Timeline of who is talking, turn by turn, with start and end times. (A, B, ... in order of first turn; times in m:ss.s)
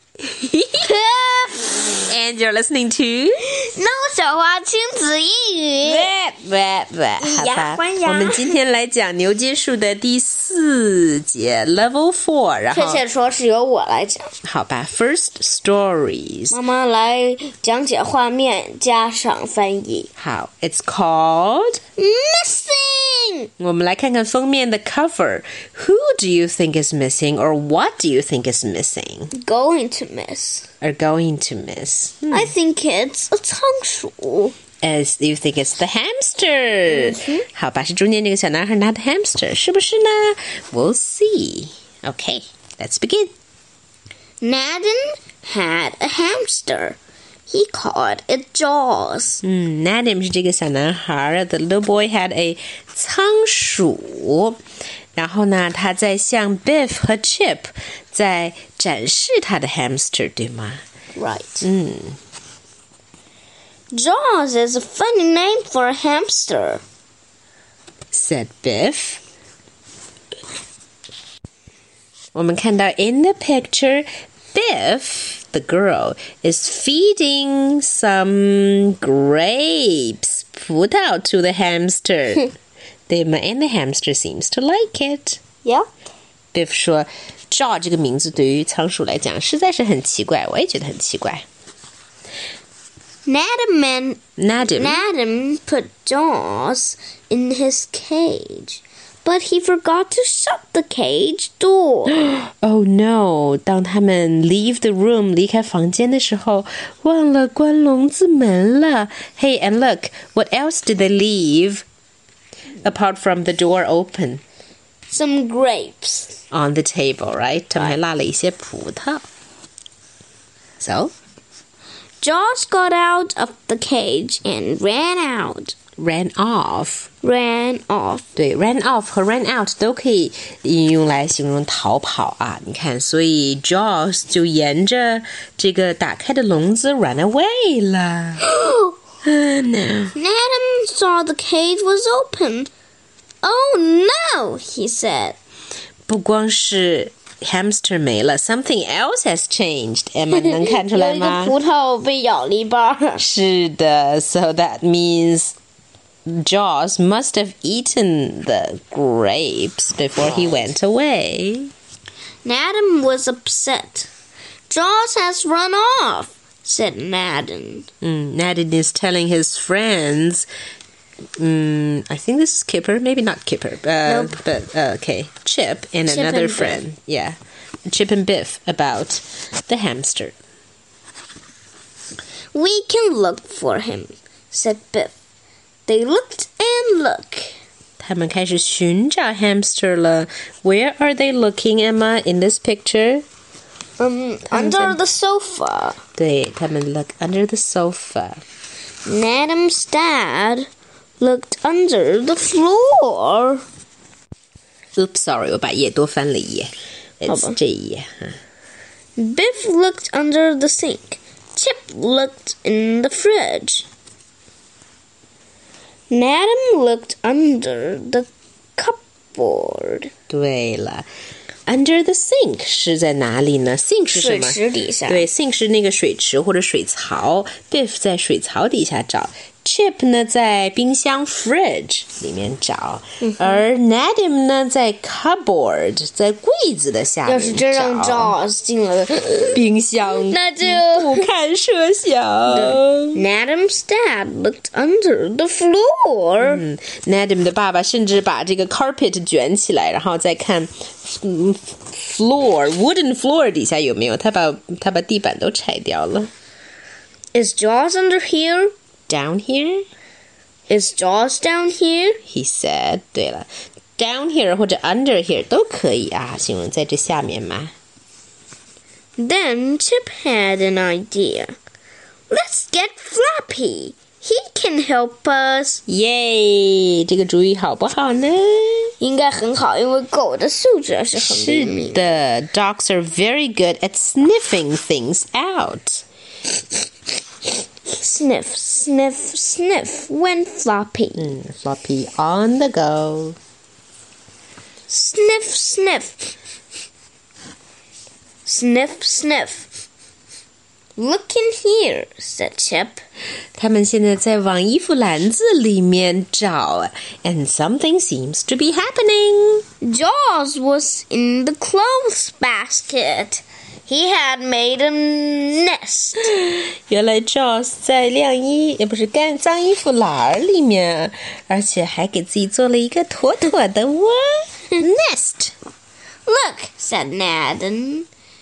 0:00.2-0:00.9 A
0:00.8-0:01.9 B
0:02.0-0:03.4 A
0:03.6-0:06.1 B
0:05.8-0:13.0 A
0:07.2-0:08.6 B
0:12.7-0:14.4 B
0:14.4-0:16.6 A
0:16.5-0:20.1 B
0:20.2-0:21.8 A
0:22.0-0:23.5 B
0:23.6-0:29.3 A
0:29.3-0:30.7 B
0:30.8-0:32.5 A
0:32.3-0:34.6 B
0:34.8-0:43.3 A
0:36.9-0:37.4 B
0:44.4-0:47.0 B
0:47.5-0:49.4 B
0:49.4-0:54.6 A
0:55.2-1:00.8 A
1:01.2-1:01.7 B
1:01.6-1:02.2 A
1:03.9-1:06.8 B
1:08.1-1:09.2 A
1:12.4-1:22.5 A
1:23.1-1:25.4 A
1:26.5-1:31.4 A
1:33.3-1:42.2 B
1:34.4-1:35.0 A
1:42.2-1:51.8 A
1:52.8-1:54.4 A
1:55.1-1:56.4 B
1:56.5-1:59.2 A
2:00.8-2:01.1 A
2:02.2-2:05.8 B
2:06.0-2:07.1 A
2:07.2-2:08.3 B
2:08.4-2:18.5 A
2:18.4-2:19.0 B
2:19.2-2:20.2 A
2:20.2-2:22.7 B
2:23.4-2:25.4 B
2:26.1-2:31.6 A
2:30.3-2:33.2 B
2:33.2-2:35.6 A
2:36.3-2:41.7 A
2:40.2-2:40.7 B
2:42.4-2:44.1 B
2:44.7-2:47.9 B
2:48.0-2:50.5 A
2:51.4-3:00.4 A
2:54.0-2:54.4 B
2:56.1-2:56.8 B
3:02.5-3:05.1 B
3:05.9-3:07.6 B
3:08.0-3:13.2 A
3:14.0-3:16.0 B
3:14.5-3:15.0 A
3:16.2-3:18.4 A
3:19.1-3:20.7 B
3:21.2-3:23.6 B
3:25.0-3:28.4 A
3:27.3-3:27.6 B
3:29.2-3:33.9 B
3:36.1-3:40.1 B
3:40.3-3:41.1 A
3:41.7-3:58.4 A
3:44.1-3:45.3 B
3:53.3-3:53.6 B
3:57.2-4:01.3 B
3:59.5-4:03.2 A
4:02.5-4:06.6 B
4:06.4-4:16.3 A
4:17.3-4:18.7 B
4:19.1-4:19.8 A
4:20.7-4:22.2 B
4:22.3-4:27.7 A
4:29.2-4:31.6 B
4:32.3-4:35.8 B
4:35.9-4:38.9 A
4:39.0-4:42.2 B
4:41.1-4:46.0 A
4:47.9-4:51.3 B
4:51.2-4:53.4 A
4:54.9-4:56.3 B
4:58.4-4:59.7 B
5:01.0-5:03.0 B
5:03.6-5:09.6 A
5:09.8-5:16.3 B
5:16.3-5:25.6 A
5:26.3-5:28.1 B